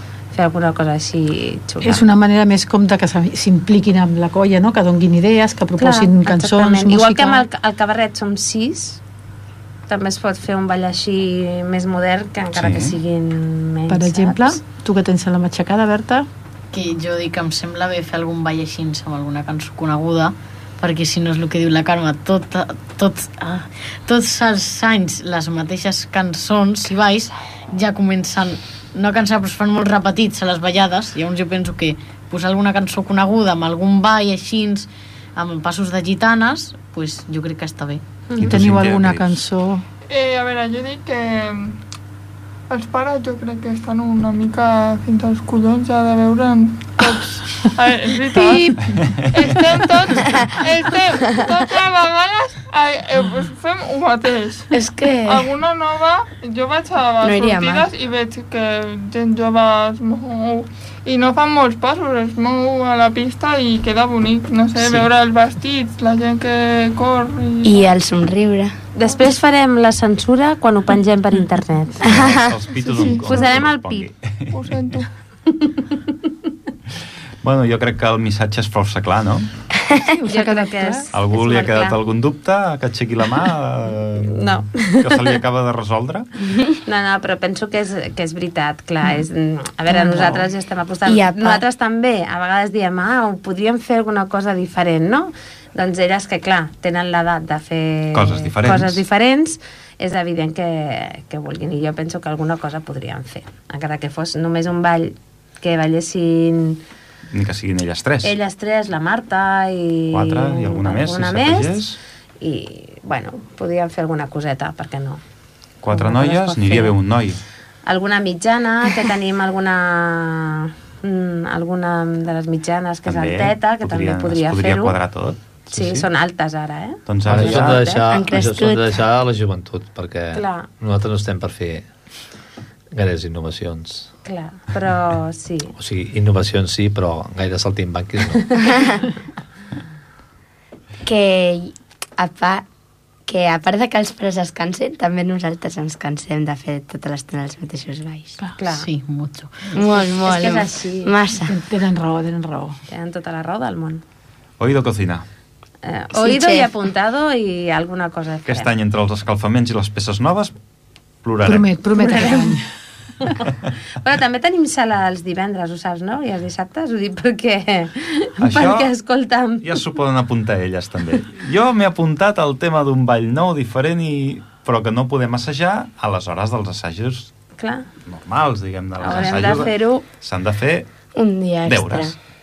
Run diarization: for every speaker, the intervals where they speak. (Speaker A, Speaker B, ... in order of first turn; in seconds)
Speaker A: 0.3-2.0, 5.8-9.0, 9.9-14.6, 68.9-72.4, 73.0-74.1, 80.3-82.0, 84.2-85.3, 86.8-106.8, 108.2-111.8, 112.4-115.2, 115.9-117.0, 117.8-125.0, 125.7-128.1, 130.3-130.7, 134.2-135.7, 148.6-148.9, 149.9-151.2, 152.9-154.0, 155.8-158.7, 162.0-162.6, 163.2-169.8, 177.6-177.9, 179.0-180.0
Speaker B: 1.8-7.4, 13.9-16.3, 38.4-39.8, 48.3-48.9, 80.0-81.0, 89.9-90.5, 151.5-152.8, 161.4-162.7
Speaker C: 12.5-13.0, 38.4-39.4, 72.0-75.0, 77.4-79.5, 81.1-86.3, 98.1-99.0, 107.3-108.3, 110.1-112.0, 115.8-117.4, 123.0-126.1, 127.1-127.9, 154.6-155.2, 158.4-160.6, 161.2-161.7, 168.4-168.9, 169.6-177.3, 178.0-180.9, 181.6-182.2
Speaker D: 16.7-38.0, 148.7-149.8
Speaker E: 40.1-41.8, 42.7-54.7, 55.2-67.9, 72.8-73.6, 74.5-75.1
Speaker F: 54.7-55.5, 57.2-57.9, 64.8-65.0, 67.6-68.7, 72.0-72.5, 91.0-91.6, 128.1-129.0, 138.7-139.0, 141.0-142.6, 143.3-148.4, 149.7-151.6, 156.1-156.7, 181.1-182.1
Speaker G: 127.2-131.9, 132.9-134.1, 135.8-138.6